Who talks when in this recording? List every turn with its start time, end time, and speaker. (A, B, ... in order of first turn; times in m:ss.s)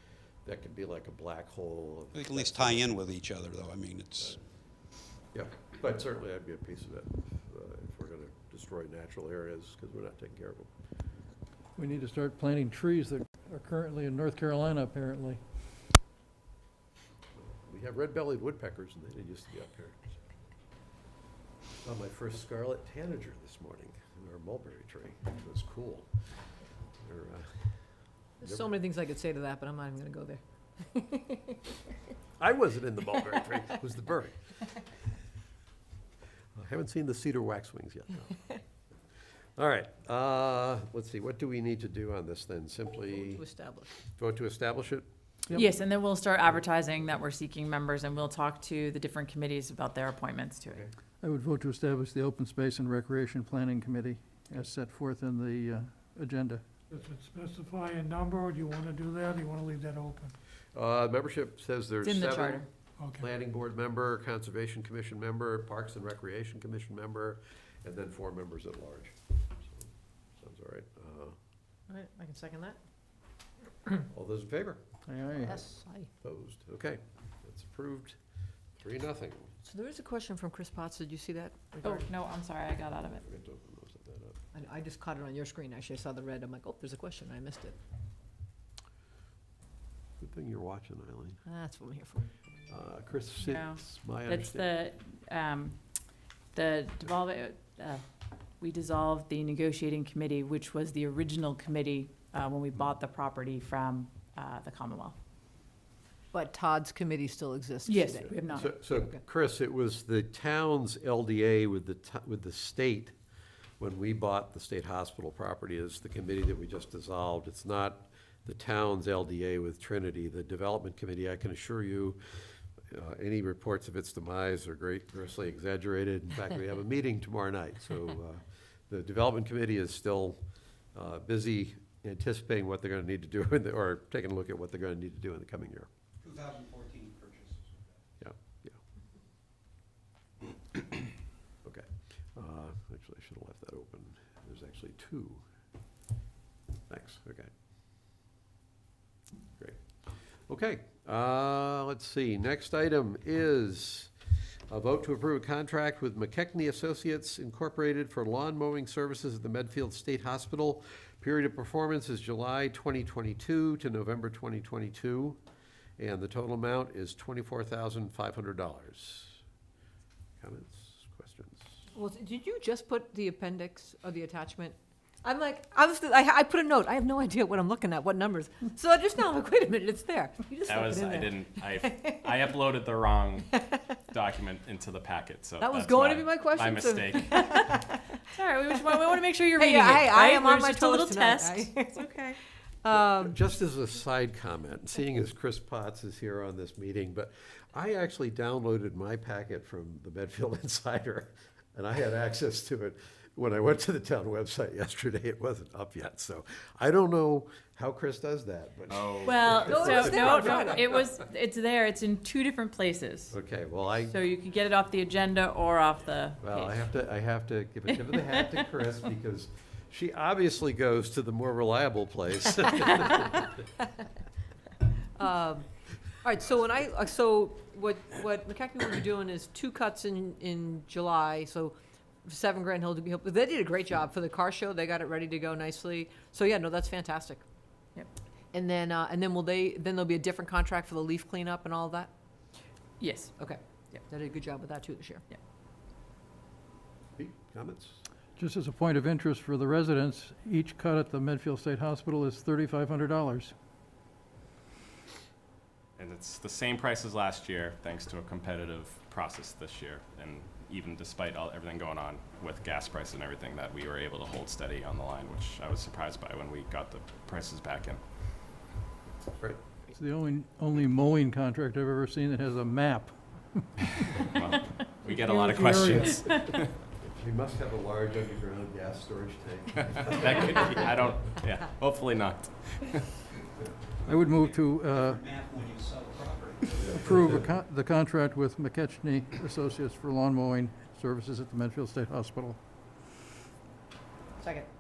0:00.4-0:03.1 A
0:02.2-0:04.3 B
0:05.3-0:10.7 A
0:11.8-0:15.4 C
0:17.4-0:20.2 A
0:21.8-0:26.1 A
0:27.0-0:27.7 A
0:28.4-0:31.6 D
0:32.4-0:34.4 A
0:36.6-0:38.6 A
0:39.6-0:43.4 A
0:43.1-0:43.9 D
0:44.1-0:45.0 A
0:45.6-0:50.8 E
0:51.2-0:56.6 C
0:56.9-1:00.3 F
1:00.8-1:11.4 A
1:02.0-1:02.7 E
1:03.0-1:03.3 F
1:11.9-1:12.8 D
1:14.1-1:14.8 A
1:15.0-1:15.6 C
1:15.4-1:16.1 D
1:16.2-1:18.2 A
1:18.8-1:19.5 A
1:19.6-1:22.1 D
1:21.8-1:23.2 E
1:23.0-1:24.4 A
1:24.5-1:27.8 D
1:30.2-1:31.4 A
1:31.4-1:32.3 D
1:32.7-1:34.7 A
1:33.4-1:35.8 E
1:36.5-1:38.0 E
1:38.6-1:45.2 E
1:46.3-1:49.2 D
1:47.8-1:48.6 E
1:48.1-1:53.1 A
1:53.8-2:02.2 A
2:02.9-2:10.4 A
2:10.9-2:15.9 A
2:18.2-2:18.8 A
2:21.6-2:25.4 A
2:26.9-2:27.5 A
2:29.6-2:29.8 A
2:30.5-2:34.1 A
2:34.7-2:45.4 A
2:46.0-2:49.4 A
2:50.4-2:51.8 A
2:51.9-3:02.5 D
3:00.6-3:07.4 G
3:05.6-3:08.2 D
3:08.3-3:11.7 E
3:08.8-3:13.3 D
3:12.9-3:30.8 A
3:28.9-3:30.0 G
3:29.3-3:33.3 E
3:29.7-3:31.1 D
3:33.3-3:34.1 A
3:34.1-3:36.8 E
3:36.4-3:43.6 A
3:45.2-3:45.7 D
3:46.2-3:57.4 D
3:58.5-4:02.1 D
4:03.0-4:03.4 E
4:03.4-4:05.2 D
4:07.2-4:08.0 A
4:08.4-4:13.5 C
4:16.0-4:28.0 G
4:29.9-4:34.2 C
4:34.3-4:36.7 G
4:35.1-4:36.2 C
4:37.0-4:40.9 A
4:39.9-4:43.1 G
4:44.0-4:45.4 C
4:45.3-4:46.7 B
4:46.8-4:47.3 A
4:46.8-4:52.6 C
4:54.4-4:54.7 D